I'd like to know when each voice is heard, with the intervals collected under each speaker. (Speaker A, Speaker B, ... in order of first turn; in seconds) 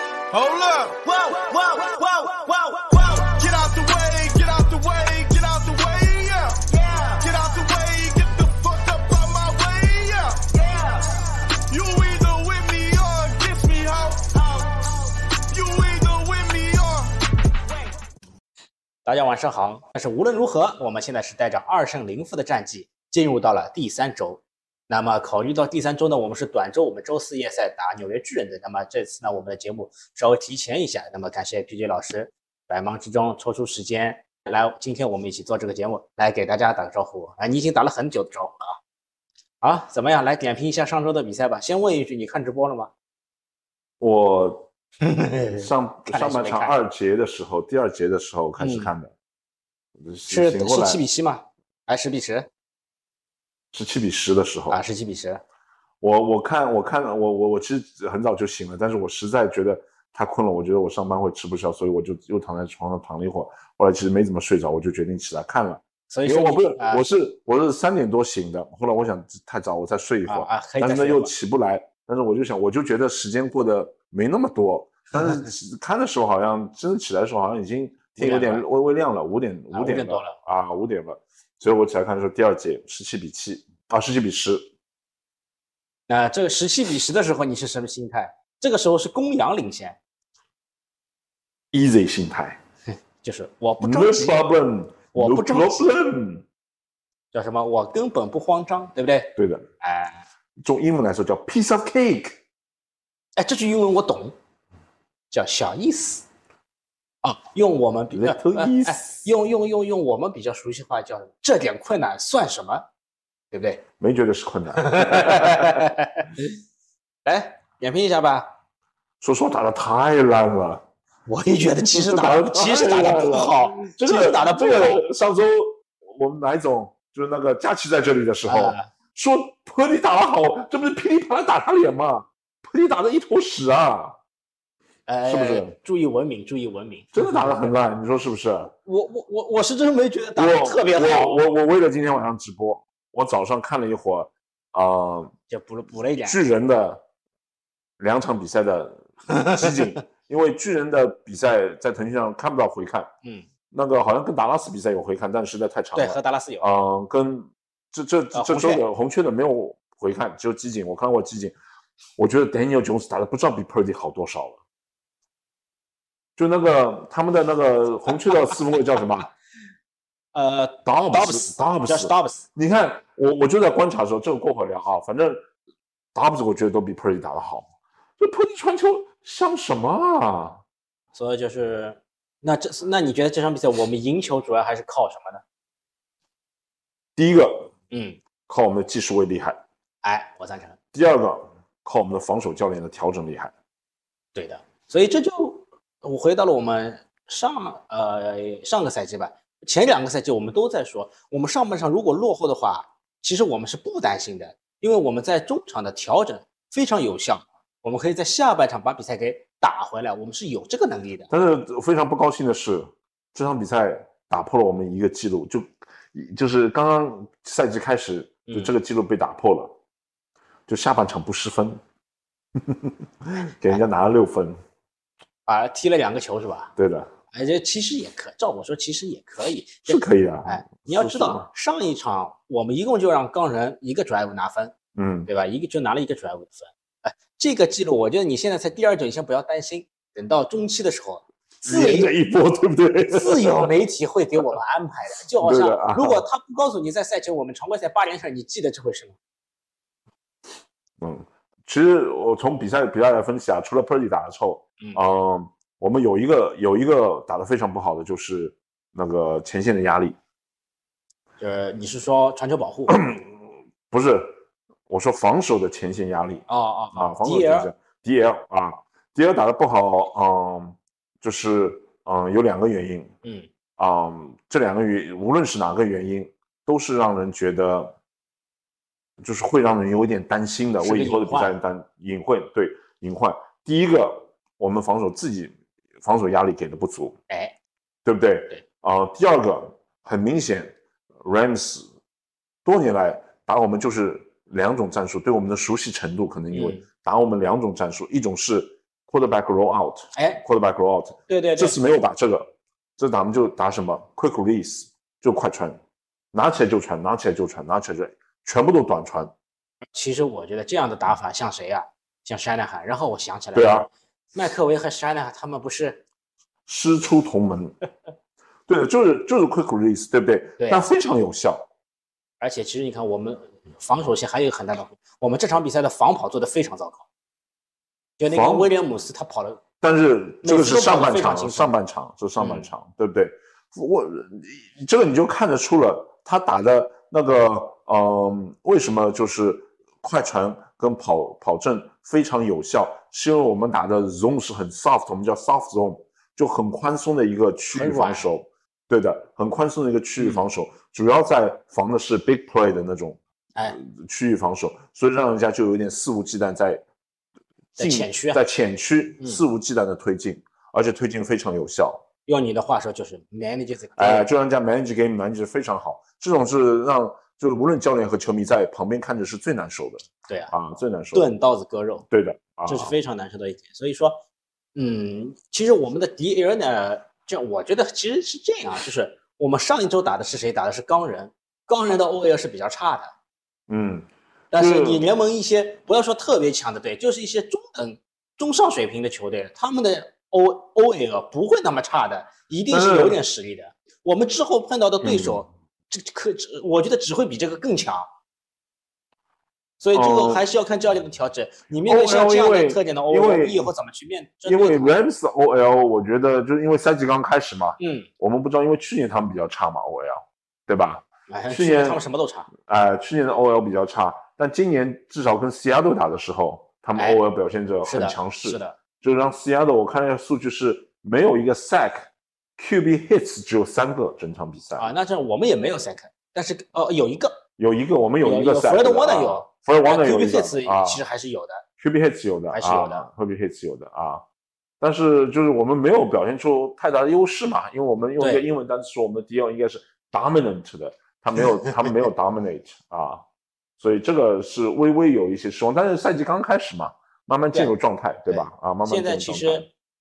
Speaker A: 0.3-17.1
Speaker B: 19.1-38.8, 39.6-42.9, 45.0-46.7, 48.6-48.9, 50.3-52.5, 54.7-55.4, 66.1-67.0, 70.2-71.3, 78.2-78.6, 79.7-80.3, 86.1-90.0, 93.2-94.4, 95.1-95.8, 97.3-100.2, 103.3-104.3, 105.3-106.2, 107.2-112.9, 113.5-113.8, 114.8-116.3, 117.2-118.5, 121.3-125.0, 128.4-128.9, 135.1-137.6, 138.8-141.4, 145.5-146.4, 149.3-149.7, 155.9-156.7, 158.3-158.8, 170.3-172.4, 181.1-185.4, 187.9-188.2, 190.0-190.8, 194.3-211.3, 218.4-218.7, 225.4-226.7, 227.3-234.7, 235.3-242.1, 243.1-249.2, 261.4-263.0, 266.5-267.7, 273.2-273.5, 280.8-281.6, 287.3-287.5, 296.5-296.8, 300.1-300.4, 301.3-301.8, 309.9-316.0, 320.6-320.8, 322.4-327.0, 328.2-329.6, 330.4-331.7, 332.4-332.7, 347.7-348.3, 350.2-350.4, 357.8-358.4, 362.3-364.3, 370.3-370.5, 371.1-372.0, 372.7-374.2, 374.7-383.1, 384.5-398.1, 399.8-404.9, 407.8-408.1, 411.3-412.5, 417.8-418.8, 424.8-427.4, 428.2-431.6, 432.5-433.1, 438.2-438.4, 448.3-449.6
Speaker C: 44.0-44.7, 45.5-49.1, 50.0-51.0, 53.7-54.8, 56.0-84.7, 91.7-92.6, 93.8-96.4, 99.3-99.7, 100.6-102.4, 108.1-109.0, 114.0-115.8, 119.2-120.8, 121.8-134.2, 135.2-135.7, 137.1-138.7, 140.3-145.3, 146.2-147.0, 148.0-153.1, 153.7-161.5, 162.2-164.6, 166.4-169.3, 170.8-175.4, 176.1-180.6, 187.2-187.7, 188.5-189.6, 190.9-193.5, 211.3-219.7, 220.7-221.8, 222.6-224.6, 226.8-227.1, 229.9-231.5, 234.9-235.3, 241.6-243.7, 245.4-246.2, 251.0-260.1, 262.9-264.4, 264.9-273.1, 273.8-277.9, 279.2-287.2, 288.0-291.9, 292.6-305.8, 306.3-309.3, 313.5-313.9, 316.6-317.8, 318.7-321.7, 328.3-328.7, 329.8-353.2, 353.7-356.8, 357.8-362.1, 364.0-371.3, 372.1-372.9, 383.7-385.0, 392.7-393.2, 395.0-395.4, 399.9-400.4, 401.9-403.7, 404.4-412.0, 412.6-424.9, 427.6-431.0, 431.8-434.2, 434.8-443.2, 443.8-449.7